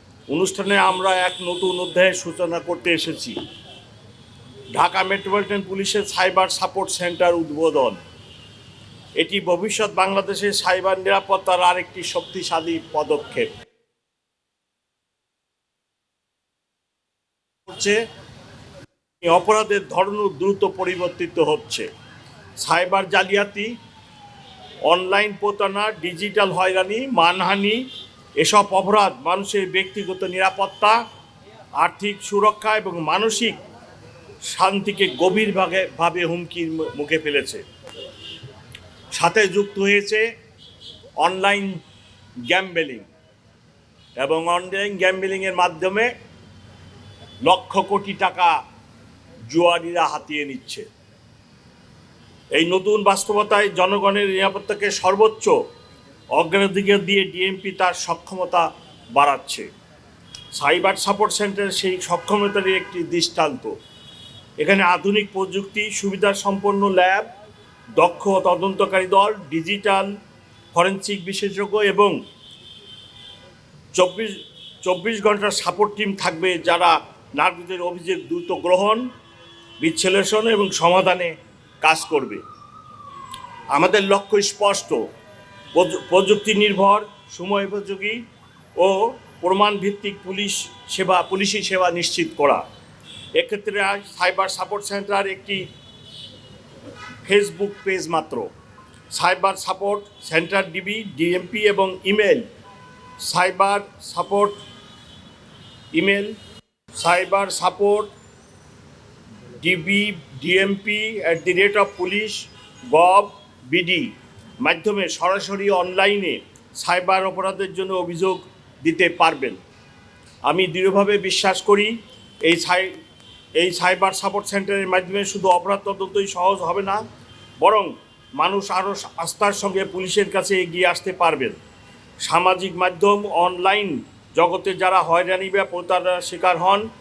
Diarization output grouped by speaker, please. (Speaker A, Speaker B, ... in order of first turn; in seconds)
Speaker A: 0.3-3.4, 4.8-8.0, 9.2-13.5, 17.7-18.0, 19.2-21.9, 22.6-23.7, 24.9-27.8, 28.4-31.0, 31.8-33.6, 34.5-37.6, 39.1-40.2, 41.2-41.8, 42.5-43.1, 44.2-46.1, 47.4-48.6, 49.5-50.9, 52.5-55.5, 56.3-59.7, 60.5-63.7, 64.6-67.3, 68.0-70.1, 70.7-72.1, 74.0-74.3, 74.8-79.0, 79.8-82.4, 83.7-85.0, 85.7-88.2, 88.8-92.6, 93.3-95.7, 97.2-98.5, 99.1-102.5, 103.2-104.6, 105.9-106.3, 107.0-108.1, 109.6-119.6, 120.5-121.9, 122.4-122.9, 123.6-127.0, 127.6-131.6, 132.2-136.8